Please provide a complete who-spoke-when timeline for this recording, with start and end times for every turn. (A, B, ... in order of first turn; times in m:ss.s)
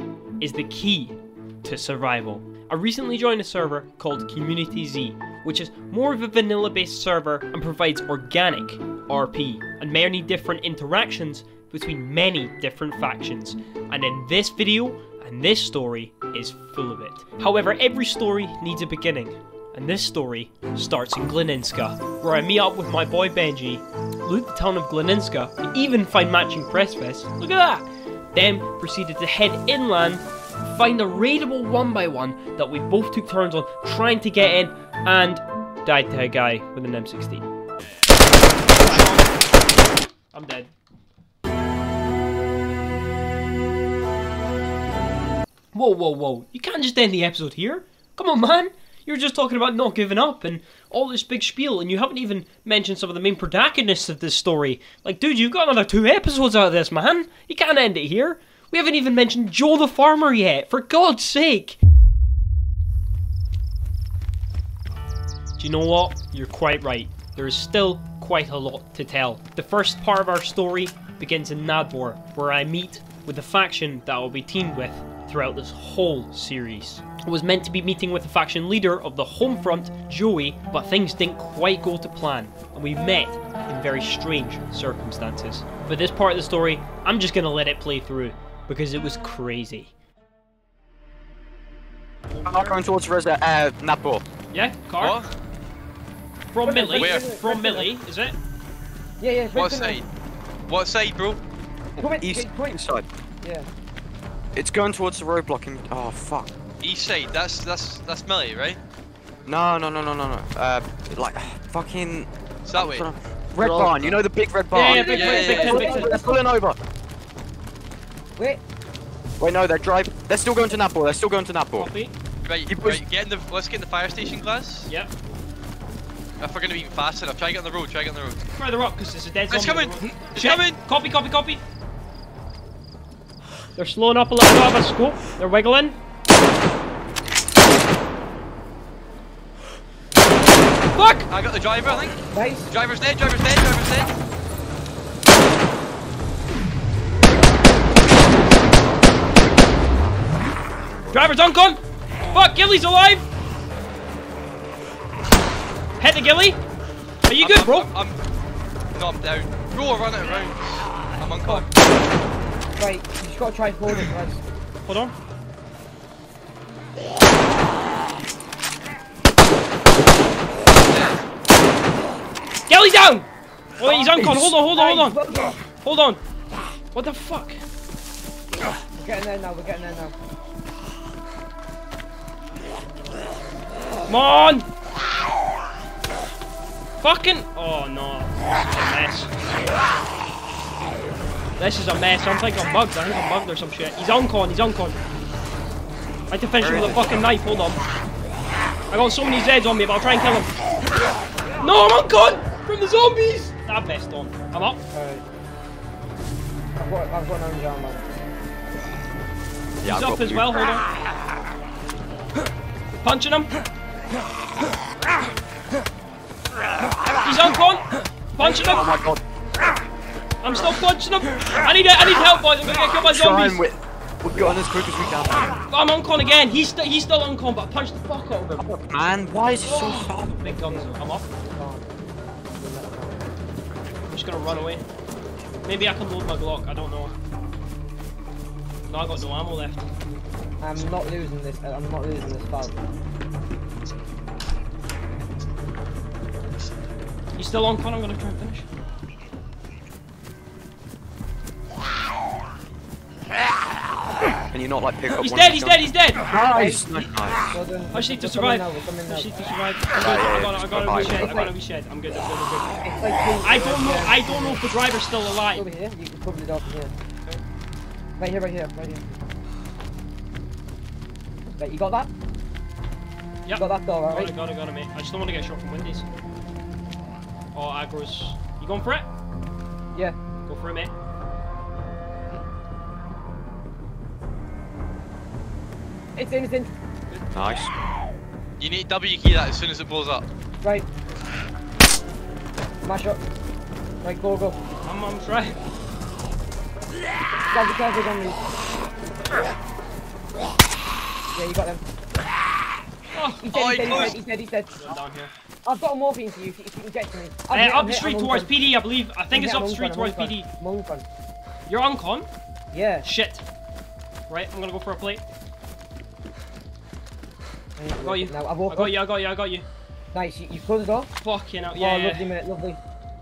0:00.4-0:37.4 A
0:38.7-0:39.3 A
0:40.3-0:40.7 A
0:45.7-1:01.8 A
1:05.6-1:29.9 A
1:32.3-1:32.8 A
1:32.4-1:34.2 B
1:34.5-1:35.2 A
1:35.0-1:35.3 C
1:36.5-1:38.4 A
1:36.6-1:37.9 D
1:36.9-1:37.3 C
1:39.2-1:40.0 D
1:39.5-1:40.0 C
1:40.7-1:41.4 C
1:42.0-1:43.0 B
1:42.0-1:42.8 D
1:43.4-1:43.7 D
1:44.5-1:46.5 B
1:46.8-1:48.8 C
1:49.4-1:56.8 B
1:52.6-1:53.1 C
1:54.7-1:56.2 A
1:54.8-1:56.4 D
1:54.9-1:55.8 C
1:58.4-1:58.6 D
1:59.4-2:01.9 B
2:01.8-2:02.1 A
2:02.4-2:04.9 C
2:02.7-2:03.0 B
2:04.9-2:05.1 A
2:06.4-2:08.4 C
2:08.6-2:11.6 A
2:09.5-2:10.8 C
2:13.8-2:16.0 A
2:20.9-2:21.3 A
2:21.3-2:22.2 C
2:22.3-2:22.7 D
2:22.7-2:24.1 C
2:31.1-2:33.2 A
2:36.0-2:36.6 A
2:37.3-2:37.9 A
2:37.4-2:38.2 C
2:38.9-2:41.7 C
2:42.8-2:44.4 D
2:44.8-2:45.1 A
2:50.9-2:51.2 C
2:52.7-2:53.3 A
2:53.8-2:56.2 A
2:53.8-2:55.6 D
2:56.9-2:57.6 A
2:59.0-3:00.1 D
3:04.1-3:04.7 A
3:07.0-3:09.3 A
3:11.6-3:15.0 A
3:16.3-3:17.8 A
3:16.5-3:17.2 B
3:18.9-3:20.5 A
3:21.6-3:24.8 A
3:24.9-3:25.2 D
3:26.8-3:28.0 D
3:29.8-3:30.5 B
3:29.8-3:30.8 A
3:33.0-3:33.5 A
3:37.2-3:38.9 A
3:38.4-3:39.2 B
3:40.4-3:43.6 A
3:43.0-3:45.6 B
3:45.7-3:48.7 A
3:48.6-3:50.4 B
3:49.6-3:51.3 A
3:49.6-3:51.9 D
3:52.6-3:53.2 D
3:54.1-3:54.8 A
3:55.6-3:57.1 A
3:58.9-3:59.8 A
4:00.6-4:02.8 D
4:07.4-4:08.6 A
4:14.5-4:17.4 B
4:15.2-4:16.2 A
4:16.5-4:19.3 D
4:17.9-4:22.8 A
4:20.0-4:21.5 B
4:20.9-4:21.5 D
4:22.8-4:24.6 D
4:23.4-4:25.6 A
4:25.5-4:26.9 D
4:28.2-4:29.2 D
4:31.6-4:32.1 D
4:33.4-4:36.0 A
4:33.6-4:34.3 D
4:37.5-4:39.1 A
4:40.4-4:40.9 A
4:46.1-4:46.7 D
4:47.3-4:47.7 B
4:48.6-4:50.2 C
4:52.8-4:53.2 D
4:54.0-4:54.6 D
4:54.8-4:55.6 A
4:57.5-4:58.4 D
5:01.3-5:01.8 D
5:03.1-5:03.5 A
5:03.4-5:04.8 D
5:03.5-5:04.2 C
5:04.8-5:05.3 A
5:05.6-5:08.6 D
5:07.5-5:10.5 A
5:09.3-5:11.0 D
5:11.7-5:12.3 A
5:12.7-5:13.1 D
5:13.0-5:13.4 A
5:14.3-5:15.2 A
5:17.8-5:19.0 D
5:18.0-5:19.6 A
5:20.1-5:21.1 D
5:21.2-5:22.3 A
5:21.7-5:22.8 D